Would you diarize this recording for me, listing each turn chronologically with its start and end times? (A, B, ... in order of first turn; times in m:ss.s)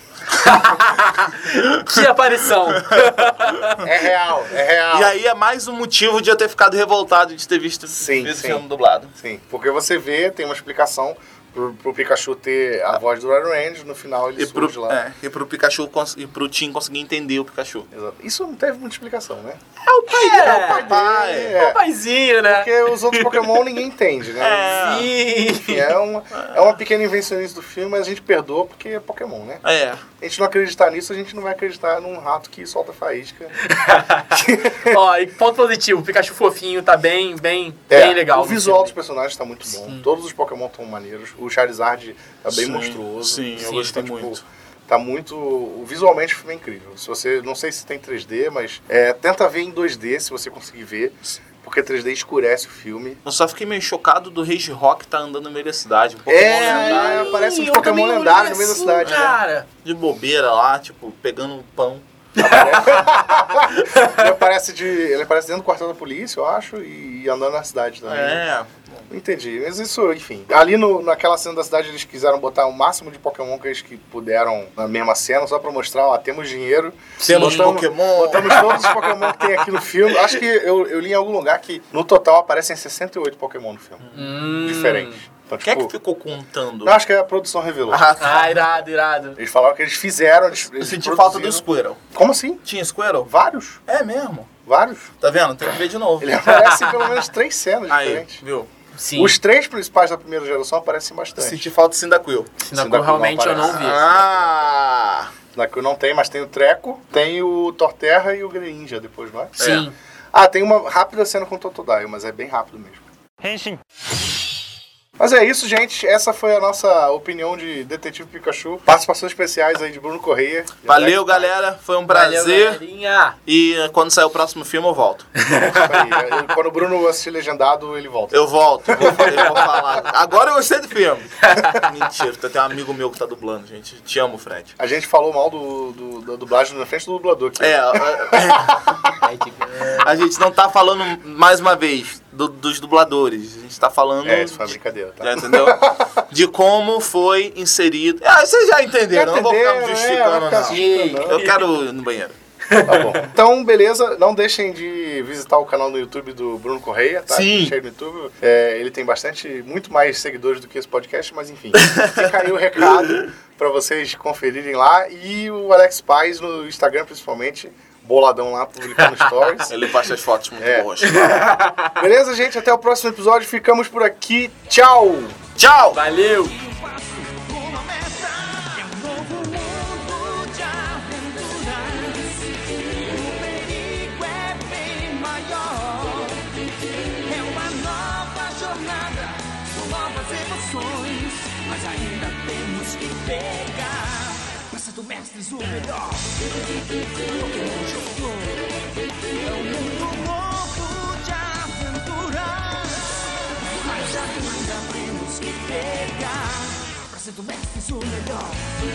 0:00.4-0:02.1 A
0:00.5-0:03.8 B
0:02.9-0:03.7 A
0:03.8-0:05.1 C
0:04.9-0:09.1 A
0:07.9-0:15.0 C
0:14.4-0:17.9 A
0:17.9-0:19.6 C
0:19.8-0:20.9 B
0:20.1-0:21.6 A
0:20.1-0:21.8 C
0:21.6-0:23.6 B
0:22.4-0:29.6 C
0:24.4-0:25.1 A
0:24.8-0:26.0 B
0:26.3-0:26.8 A
0:29.6-0:30.0 A
0:30.2-0:33.5 C
0:33.6-0:38.9 B
0:34.3-0:34.9 C
0:37.9-0:53.2 C
0:39.6-0:40.1 B
0:42.5-0:44.4 A
0:53.2-0:57.4 A
0:56.3-0:59.4 C
0:56.6-0:59.7 B
0:59.8-1:02.0 A
1:02.4-1:04.2 B
1:02.4-1:08.4 C
1:08.0-1:09.1 A
1:09.1-1:24.0 C
1:17.2-1:17.8 B
1:17.2-1:19.0 A
1:18.4-1:19.0 B
1:24.0-1:24.3 A
1:24.1-1:25.2 B
1:24.6-1:25.9 C
1:25.6-1:27.0 A
1:26.8-1:28.0 C
1:27.9-1:28.8 A
1:28.2-1:29.4 B
1:29.4-1:32.6 C
1:30.5-1:32.0 A
1:32.6-1:33.3 A
1:33.2-1:33.8 C
1:33.9-1:34.5 A
1:34.6-1:35.1 C
1:35.2-1:36.3 A
1:36.2-1:38.4 C
1:36.5-1:37.0 B
1:37.9-1:38.7 A
1:38.9-1:39.4 B
1:39.2-1:41.7 C
1:41.4-1:42.5 A
1:42.6-1:44.0 B
1:42.7-1:44.6 C
1:43.6-1:45.3 A
1:45.5-1:53.0 C
1:49.6-1:49.9 A
1:49.6-1:49.9 B
1:53.4-1:53.8 D
1:55.2-2:01.5 C
2:00.8-2:02.8 A
2:02.1-2:03.4 B
2:03.4-2:05.3 A
2:05.4-2:06.1 B
2:05.6-2:09.6 C
2:08.3-2:14.7 A
2:11.5-2:11.8 B
2:14.8-2:19.2 C
2:17.6-2:18.8 A
2:19.2-2:20.1 B
2:19.9-2:32.3 A
2:24.2-2:26.1 C
2:29.1-2:31.4 C
2:30.7-2:31.6 B
2:32.7-2:33.2 B
2:32.8-2:49.7 C
2:37.3-2:37.7 A
2:41.8-2:43.1 A
2:49.7-2:51.3 A
2:50.6-2:50.9 C
2:51.0-2:51.9 B
2:51.8-2:55.4 C
2:55.6-2:56.0 A
2:55.9-2:56.6 B
2:56.6-3:02.3 D
3:03.1-3:06.4 D
3:07.3-3:16.2 D
3:17.3-3:18.5 D
3:19.4-3:23.0 D
3:23.8-3:28.6 D